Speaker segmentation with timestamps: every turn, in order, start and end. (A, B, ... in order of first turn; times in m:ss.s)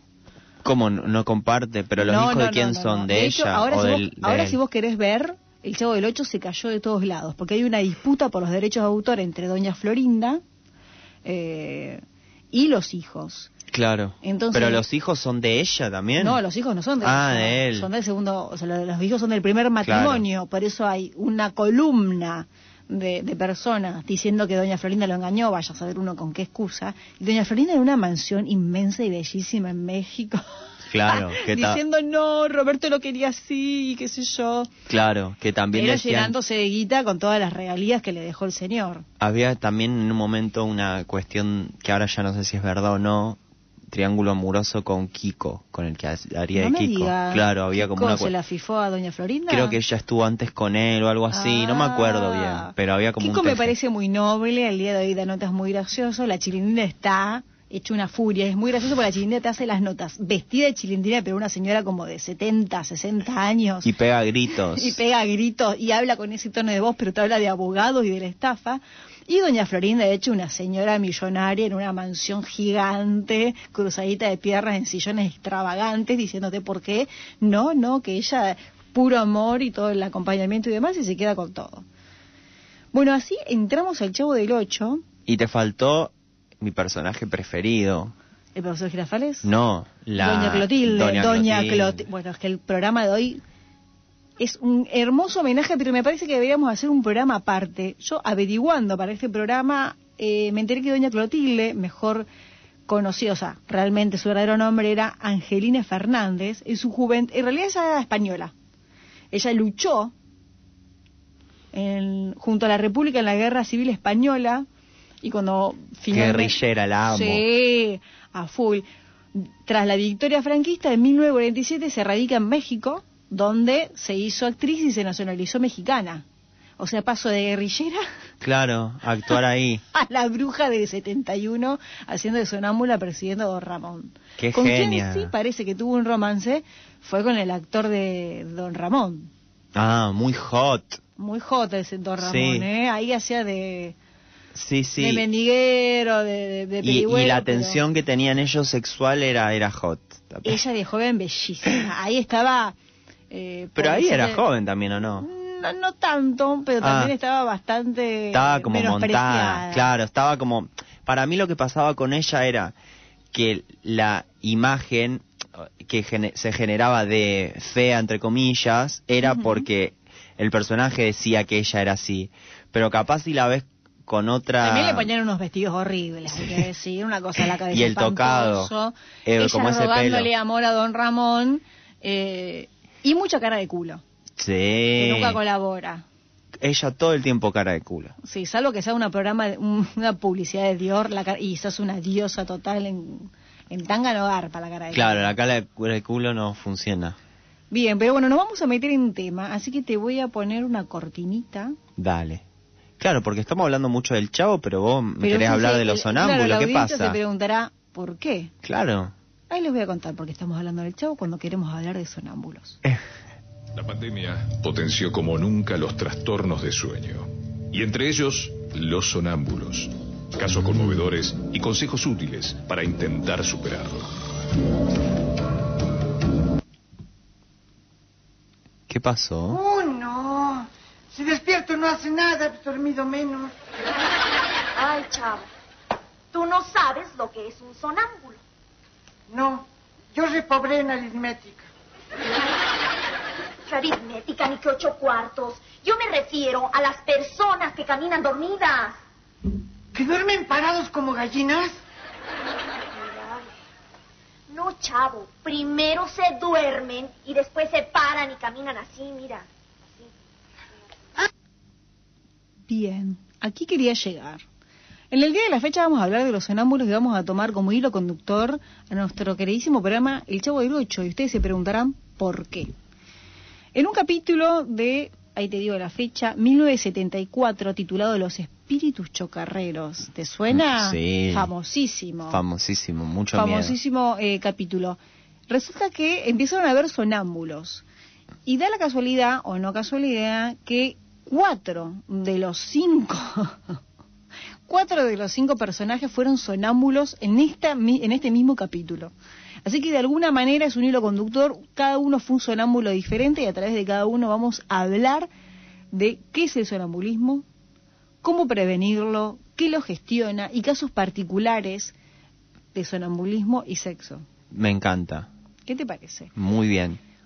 0:00.6-0:04.6 A
0:02.0-0:10.4 B
0:11.2-0:13.5 B
0:13.7-0:16.4 A
0:14.2-0:14.8 B
0:16.2-0:30.4 B
0:17.0-0:17.9 A
0:19.8-0:20.2 A
0:30.8-0:31.8 A
0:31.0-0:34.7 B
0:34.9-0:36.3 A
0:35.7-0:39.0 B
0:39.2-0:48.3 A
0:46.5-0:49.8 B
0:49.5-0:53.7 A
0:51.3-1:03.9 B
1:03.8-1:05.0 A
1:04.6-1:21.8 B
1:22.9-1:25.0 B
1:25.3-1:28.1 A
1:28.6-1:29.5 B
1:29.4-1:32.0 A
1:30.2-1:33.4 B
1:34.4-1:42.3 B
1:42.9-1:48.5 B
1:49.3-1:50.1 B
1:51.7-1:54.6 B
1:55.2-2:06.2 B
1:56.1-1:57.4 A
2:06.8-2:08.0 B
2:08.4-2:09.8 A
2:09.9-2:19.3 B
2:14.4-2:15.3 A
2:19.7-2:21.0 A
2:21.2-2:23.9 B
2:22.2-2:22.7 A
2:24.5-2:25.2 A
2:25.0-2:27.8 B
2:26.8-2:30.6 A
2:30.4-2:32.8 B
2:33.3-2:34.4 B
2:33.8-2:35.3 A
2:35.2-2:39.9 B
2:36.8-2:37.1 A
2:38.3-2:42.7 A
2:43.3-2:55.1 A
2:49.2-2:49.6 B
2:54.6-3:04.0 B
2:56.3-2:56.6 A
2:57.7-2:58.7 A
2:59.2-3:00.3 A
3:04.4-3:05.4 A
3:05.0-3:06.0 B
3:06.6-3:08.1 A
3:08.2-3:15.3 B
3:14.9-3:17.2 A
3:17.7-3:21.8 B
3:22.0-3:22.4 A
3:23.0-3:27.2 A
3:25.2-3:28.5 B
3:28.6-3:29.1 A
3:29.5-3:32.8 B
3:33.7-3:44.1 C
3:48.9-3:49.6 A
3:49.5-3:53.5 D
3:54.8-3:55.5 E
3:56.3-3:58.4 E
3:59.3-4:01.7 D
4:03.7-4:08.9 E
4:09.9-4:11.8 D
4:13.0-4:13.4 E
4:14.5-4:19.4 E
4:22.7-4:24.4 B
4:25.1-4:32.7 B
4:33.7-4:42.4 B
4:40.5-4:41.5 A
4:42.3-4:43.7 A
4:43.3-4:47.8 B
4:48.4-4:53.6 B
4:54.7-4:59.1 B
4:59.6-5:05.3 B
5:05.9-5:07.4 B
5:08.2-5:11.9 B
5:12.7-5:14.2 B
5:14.5-5:15.3 A
5:15.7-5:16.3 B
5:16.4-5:17.0 A